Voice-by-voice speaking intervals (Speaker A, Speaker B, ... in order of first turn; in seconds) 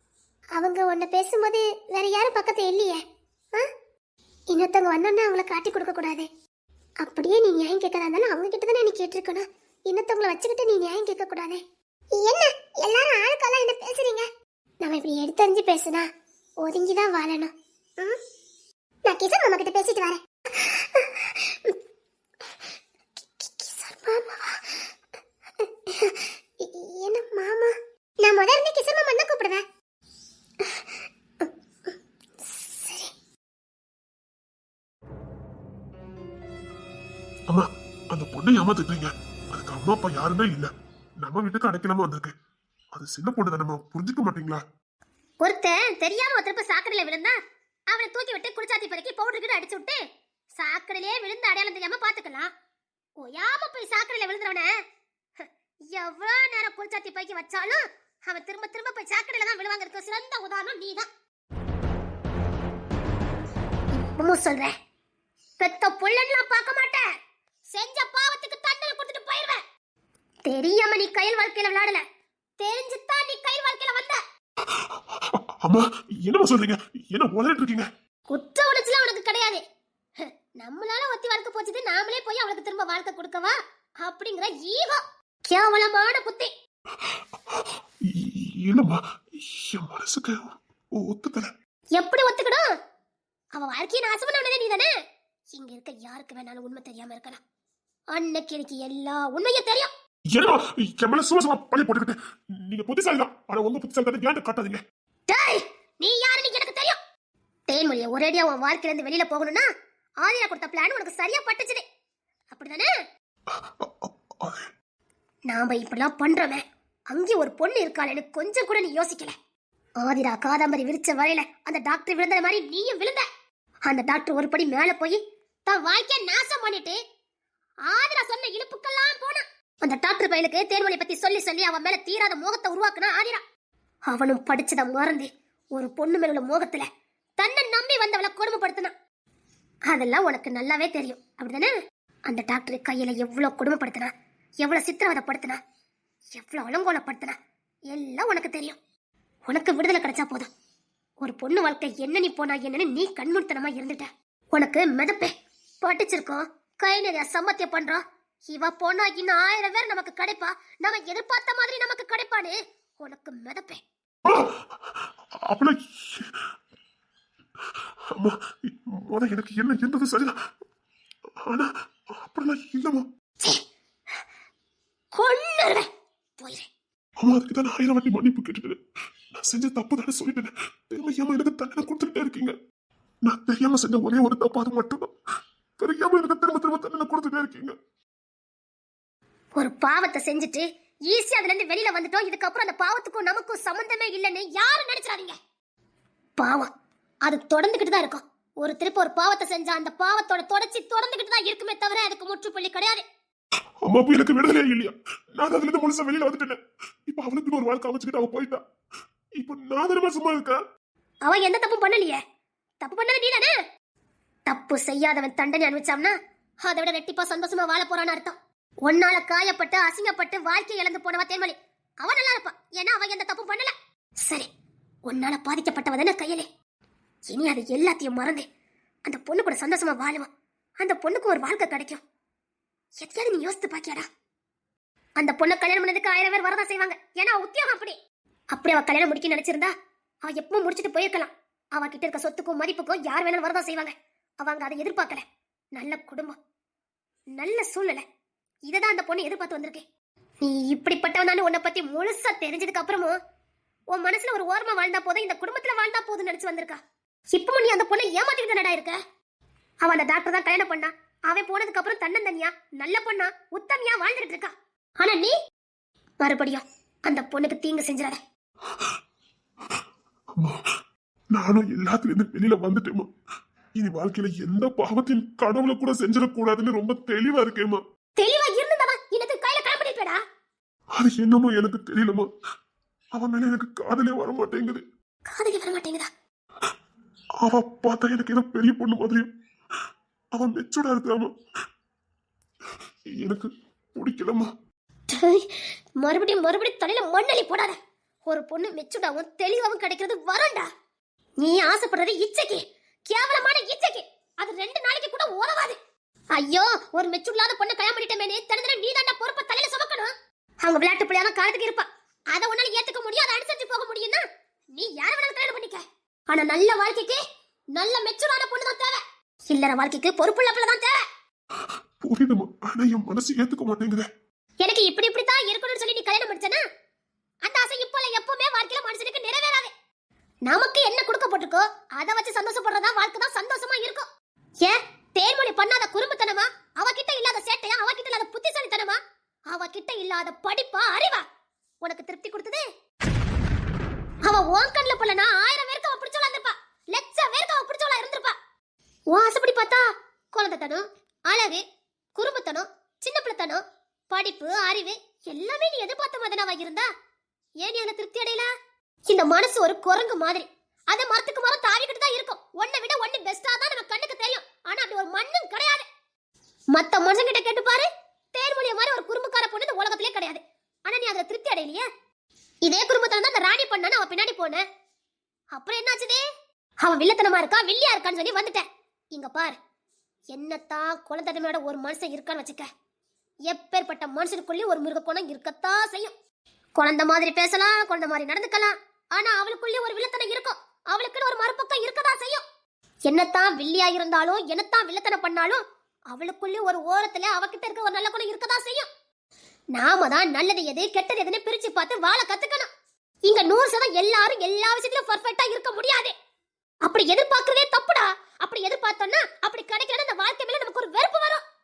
Speaker A: 0.6-3.7, 4.5-6.3, 7.0-11.6, 12.2-14.3, 14.8-16.1, 16.6-18.2, 19.1-21.8, 23.2-24.8, 25.6-29.6, 30.6-33.1
Speaker B: 37.5-42.3, 42.9-44.6, 74.6-77.9, 87.0-91.5, 100.3-104.8, 113.5-114.7, 164.2-164.6, 165.4-166.4, 168.1-170.4, 171.4-173.1, 177.2-178.8, 179.3-182.6, 183.2-185.1, 185.8-187.8, 203.8-208.6, 209.4-210.6, 270.4-270.7, 271.3-273.1, 273.8-277.8, 280.9-282.3, 283.1-284.8, 287.4-289.3, 290.3-291.3, 293.1-294.5, 322.0-324.1
Speaker C: 45.4-47.4, 47.9-50.0, 50.6-52.5, 53.2-54.7, 55.4-61.1, 63.9-64.8, 65.6-67.1, 67.7-69.6, 70.5-72.0, 72.6-74.2, 78.3-79.6, 80.2-86.5, 92.0-92.7, 93.5-94.9, 95.5-97.4, 98.1-99.9, 105.3-107.0, 107.7-109.7, 110.2-111.8, 112.5-112.9, 115.5-119.3, 120.0-123.3, 123.9-127.0, 127.9-133.4, 134.1-136.9, 137.4-138.9, 139.9-141.7, 142.3-145.6, 146.3-147.4, 147.9-148.8, 149.5-150.5, 151.2-163.8, 175.1-175.9, 176.4-176.7, 189.6-195.4, 196.4-196.7, 197.2-203.0, 211.2-212.2, 212.8-213.5, 214.5-223.7, 225.1-226.5, 227.3-228.5, 229.1-232.0, 233.0-234.1, 235.2-238.0, 238.5-239.7, 240.2-245.2, 245.8-246.4, 247.3-248.0, 248.7-249.8, 250.4-253.2, 253.9-256.8, 257.3-259.0, 259.8-265.4, 266.2-268.2, 278.2-280.2, 285.3-286.1, 295.1-300.7, 301.4-305.8, 306.4-317.2, 317.8-321.0, 324.6-326.6, 327.4-329.7, 330.4-334.1, 334.6-339.0, 339.5-341.2, 341.8-342.6, 344.2-348.4, 349.1-351.6, 352.1-356.9, 357.6-358.5, 359.1-365.9, 366.7-371.9, 372.6-374.6, 375.5-376.2, 376.8-379.6, 380.3-382.7, 383.5-386.1, 386.8-392.4, 393.1-398.9, 399.7-402.7, 403.3-406.1, 406.8-411.4